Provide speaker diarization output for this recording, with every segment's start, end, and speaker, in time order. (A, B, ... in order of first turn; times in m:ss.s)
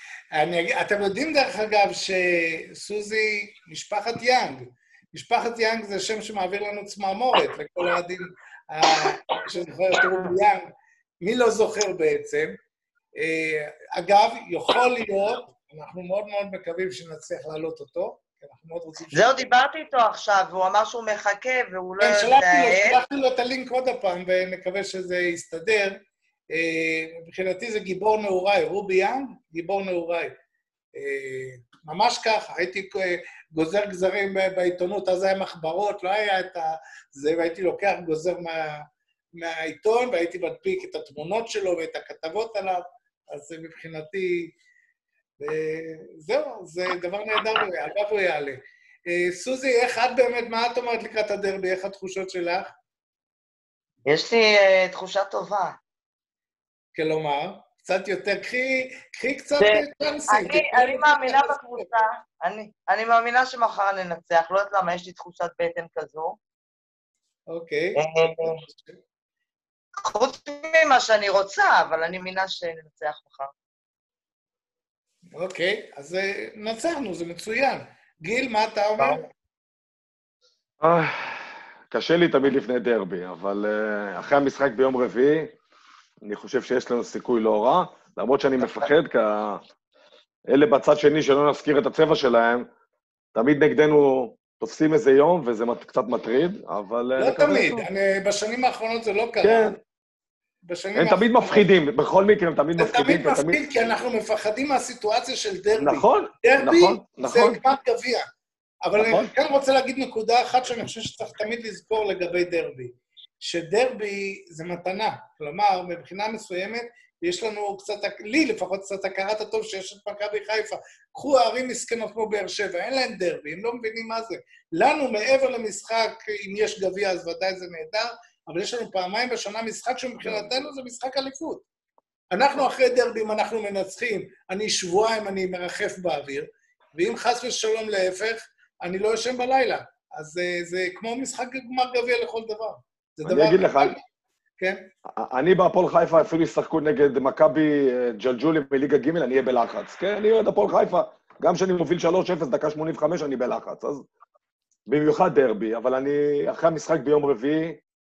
0:00.3-0:12.6 A
0:13.2-0:19.5 A
0:19.1-0:23.0 B
0:22.0-0:26.0 A
0:26.5-0:30.4 A
0:31.0-0:38.8 A
0:39.4-0:44.5 A
0:45.4-0:52.7 A
0:54.0-0:55.8 B
0:56.9-1:01.9 A
0:59.6-1:06.4 B
1:07.5-1:08.0 A
1:08.0-1:08.6 B
1:10.0-1:13.5 B
1:15.3-1:19.3 A
1:20.8-1:25.5 C
1:26.2-1:29.6 C
1:30.5-1:32.7 C
1:33.3-1:37.9 C
1:37.2-1:39.8 A
1:39.4-1:39.8 C
1:40.7-1:41.6 A
1:40.9-1:43.6 C
1:42.8-1:48.2 A
1:45.8-1:47.6 C
1:48.8-2:11.6 A
1:49.0-1:49.3 C
2:12.3-2:24.0 A
2:23.2-2:24.0 C
2:24.6-2:24.8 A
2:25.2-2:34.0 C
2:34.9-2:37.8 C